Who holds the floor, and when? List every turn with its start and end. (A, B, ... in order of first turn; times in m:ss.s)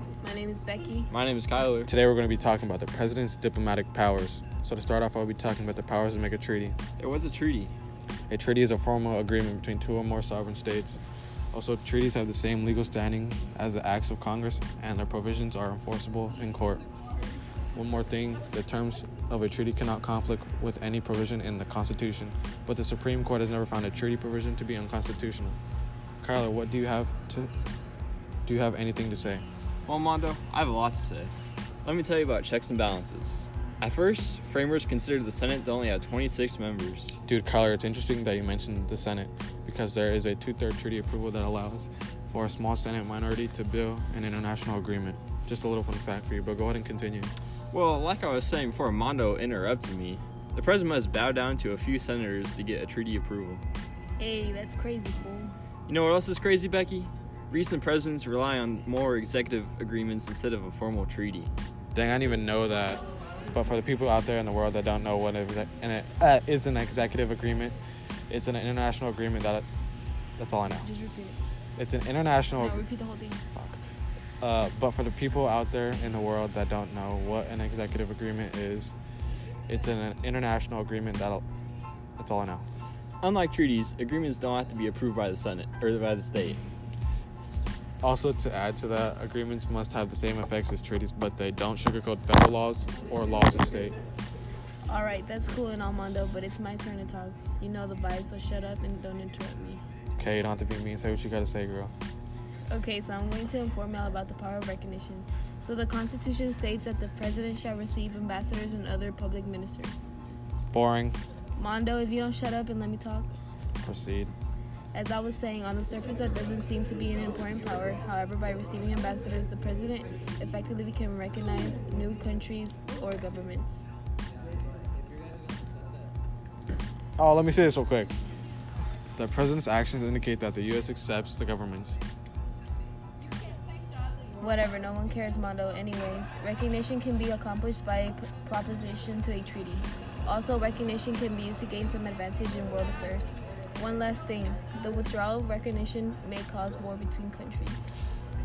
0:00.2-0:01.1 A
0:01.1-0:01.9 B
0:01.9-0:06.8 C
0:07.0-0:07.7 B
0:08.3-0:11.0 C
0:11.5-0:16.8 C
0:17.7-0:25.6 C
0:26.2-0:27.5 C
0:28.4-0:29.4 C
0:29.9-0:31.3 B
0:31.8-0:37.2 B
0:37.2-0:47.3 C
0:47.7-0:53.6 B
0:54.2-0:55.5 A
0:55.9-1:01.5 B
1:01.9-1:07.8 C
1:08.3-1:09.6 C
1:10.4-1:10.9 C
1:10.8-1:11.4 A
1:11.8-1:12.8 C
1:12.6-1:13.4 A
1:13.5-1:13.8 C
1:14.4-1:18.9 C
1:19.7-1:21.4 C
1:22.2-1:22.6 C
1:23.2-1:26.6 B
1:28.0-1:34.0 C
1:34.9-1:39.8 A
1:40.2-1:41.9 C
1:42.7-1:50.1 A
1:50.7-1:51.2 C
1:51.6-1:53.3 A
1:53.8-1:54.3 C
1:54.9-2:03.8 A
2:07.2-2:08.1 C
2:09.2-2:12.0 C
2:14.4-2:27.9 A